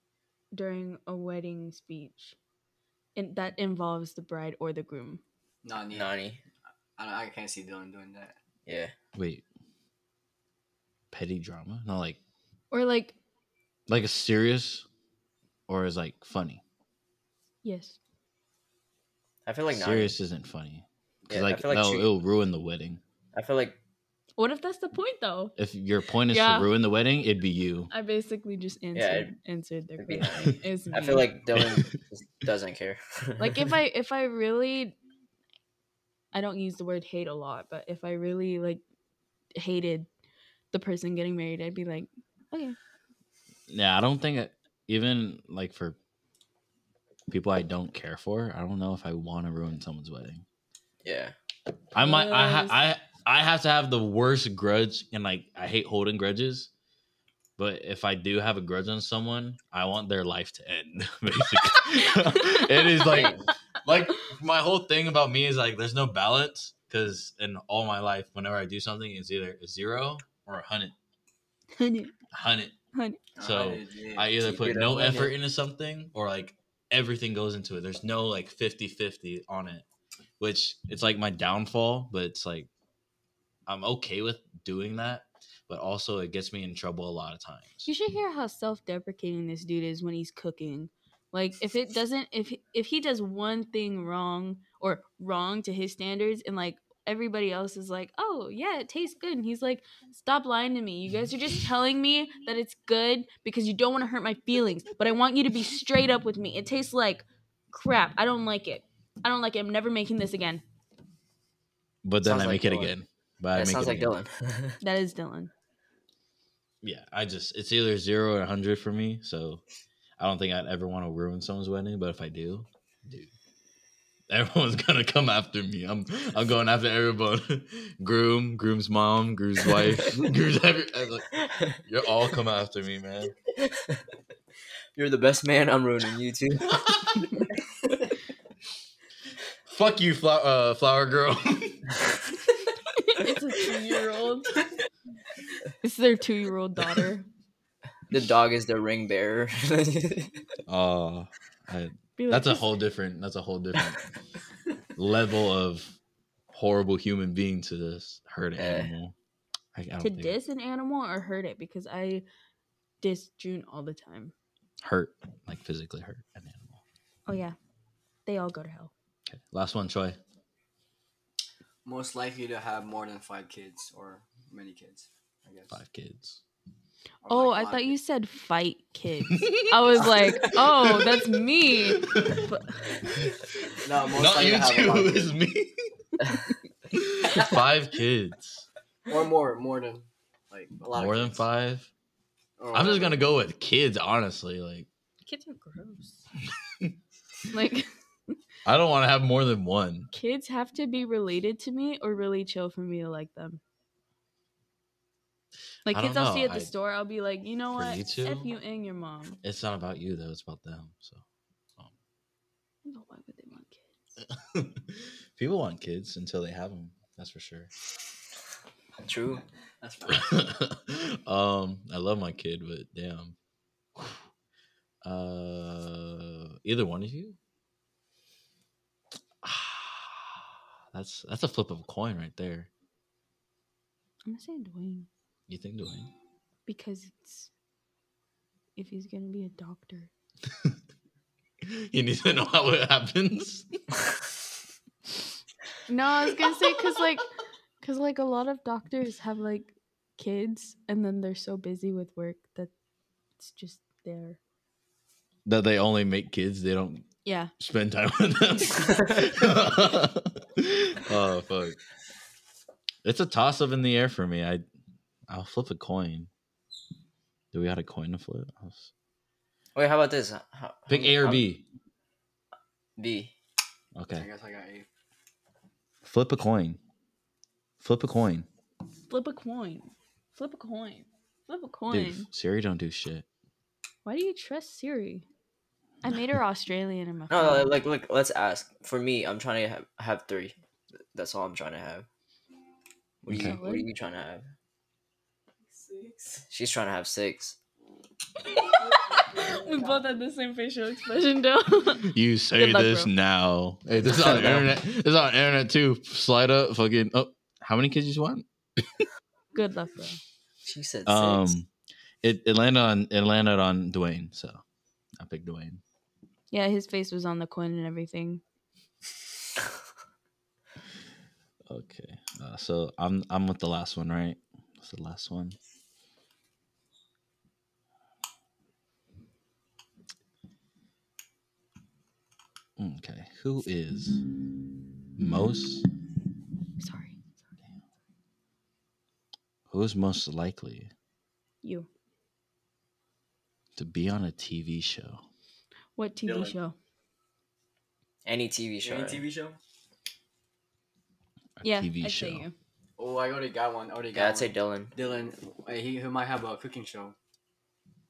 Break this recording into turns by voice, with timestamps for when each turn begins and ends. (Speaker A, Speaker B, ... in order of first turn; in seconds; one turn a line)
Speaker A: 0.5-2.4
Speaker A: 3.1-5.2
Speaker B: 5.6-6.1
Speaker C: 5.9-6.4
Speaker B: 7.0-8.4
Speaker C: 8.7-8.9
Speaker D: 9.2-9.4
Speaker D: 11.1-12.2
Speaker A: 12.7-13.2
Speaker D: 13.9-14.9
Speaker D: 15.7-16.6
Speaker A: 17.6-18.0
Speaker C: 19.5-20.2
Speaker D: 19.7-23.0
Speaker C: 21.3-22.1
Speaker C: 23.3-23.8
Speaker A: 24.4-25.6
Speaker D: 25.6-27.9
Speaker A: 26.3-26.7
Speaker A: 27.9-31.3
Speaker C: 28.9-29.3
Speaker C: 30.0-33.7
Speaker D: 31.1-31.9
Speaker A: 33.4-35.0
Speaker A: 36.3-38.8
Speaker A: 39.6-40.1
Speaker A: 40.7-42.8
Speaker D: 43.7-46.0
Speaker D: 47.3-50.4
Speaker C: 51.0-51.3
Speaker D: 51.9-56.7
Speaker A: 52.0-52.8
Speaker D: 57.6-71.0
Speaker A: 61.7-63.1
Speaker C: 63.1-63.5
Speaker A: 71.8-72.1
Speaker D: 72.3-72.7
Speaker A: 72.9-73.2
Speaker B: 73.4-74.3
Speaker D: 73.4-79.8
Speaker C: 74.4-75.3
Speaker D: 80.4-82.7
Speaker D: 83.7-87.9
Speaker A: 87.8-110.6
Speaker D: 112.0-114.2
Speaker C: 112.2-113.0
Speaker C: 113.5-114.8
Speaker A: 114.8-115.5
Speaker D: 116.8-119.6
Speaker D: 120.2-123.3
Speaker D: 124.3-131.3
Speaker C: 131.5-131.7
Speaker D: 131.9-133.3
Speaker C: 133.6-134.0
Speaker C: 135.0-136.8
Speaker D: 136.9-137.2
Speaker D: 139.7-141.9
Speaker A: 142.9-144.7
Speaker A: 145.8-147.3
Speaker C: 148.1-150.3
Speaker D: 150.7-154.0
Speaker A: 152.2-152.7
Speaker D: 155.0-156.0
Speaker D: 156.5-159.2
Speaker C: 158.6-158.9
Speaker D: 159.8-160.4
Speaker A: 160.0-162.2
Speaker A: 163.0-164.3
Speaker D: 164.8-166.8
Speaker A: 167.3-167.6
Speaker A: 168.3-168.9
Speaker D: 169.3-170.2
Speaker B: 171.8-175.8
Speaker D: 175.7-176.4
Speaker B: 177.2-178.0
Speaker A: 177.3-183.0
Speaker D: 179.3-179.6
Speaker D: 181.9-182.5
Speaker B: 183.8-185.3
Speaker D: 184.1-185.7
Speaker D: 186.9-188.7
Speaker B: 187.3-187.6
Speaker B: 189.1-191.4
Speaker D: 190.9-191.9
Speaker B: 192.6-193.2
Speaker D: 192.7-194.9
Speaker A: 195.2-196.2
Speaker A: 197.5-197.9
Speaker D: 198.7-200.1
Speaker A: 200.1-203.6
Speaker A: 205.9-209.4
Speaker D: 205.9-206.7
Speaker D: 207.8-208.5
Speaker D: 209.4-211.2
Speaker A: 212.8-213.9
Speaker D: 214.5-217.7
Speaker C: 219.0-219.4
Speaker B: 219.8-220.4
Speaker D: 220.1-223.3
Speaker D: 225.0-227.4
Speaker D: 229.4-232.7
Speaker A: 234.3-235.1
Speaker D: 235.5-236.1
Speaker A: 236.7-237.5
Speaker A: 238.8-240.1
Speaker D: 241.7-243.7
Speaker A: 245.9-247.3
Speaker A: 247.8-252.7
Speaker A: 253.4-254.4
Speaker D: 255.5-257.1
Speaker A: 257.2-257.5
Speaker D: 257.6-261.8
Speaker D: 263.0-264.6
Speaker D: 265.3-266.3
Speaker D: 267.5-268.9
Speaker C: 269.8-271.4
Speaker D: 270.9-271.6
Speaker C: 273.0-273.3
Speaker D: 274.0-274.3
Speaker B: 274.2-274.9
Speaker D: 276.0-276.8
Speaker D: 277.8-278.5
Speaker A: 279.1-282.3
Speaker D: 281.9-283.3
Speaker A: 284.1-285.3
Speaker A: 286.0-287.8
Speaker C: 287.3-290.6
Speaker C: 291.1-292.1
Speaker C: 293.2-294.5
Speaker D: 293.3-293.6
Speaker A: 293.4-293.9
Speaker E: 295.6-296.4
Speaker C: 296.5-297.6
Speaker A: 298.4-303.1
Speaker E: 298.6-300.1
Speaker D: 302.1-309.1
Speaker C: 304.0-304.7
Speaker A: 309.5-310.2
Speaker C: 310.6-311.6
Speaker D: 311.1-311.7
Speaker D: 312.2-314.6
Speaker D: 315.2-315.8
Speaker A: 316.5-318.4
Speaker D: 321.7-325.6
Speaker D: 332.8-334.2
Speaker D: 335.2-335.9
Speaker A: 336.8-337.2
Speaker D: 339.7-340.9
Speaker A: 341.6-341.9
Speaker D: 343.8-345.2
Speaker A: 346.0-346.8
Speaker B: 346.2-346.6
Speaker C: 348.3-349.2
Speaker B: 348.8-349.6
Speaker D: 351.6-352.4
Speaker A: 351.6-352.6
Speaker B: 353.0-357.2
Speaker C: 354.1-354.9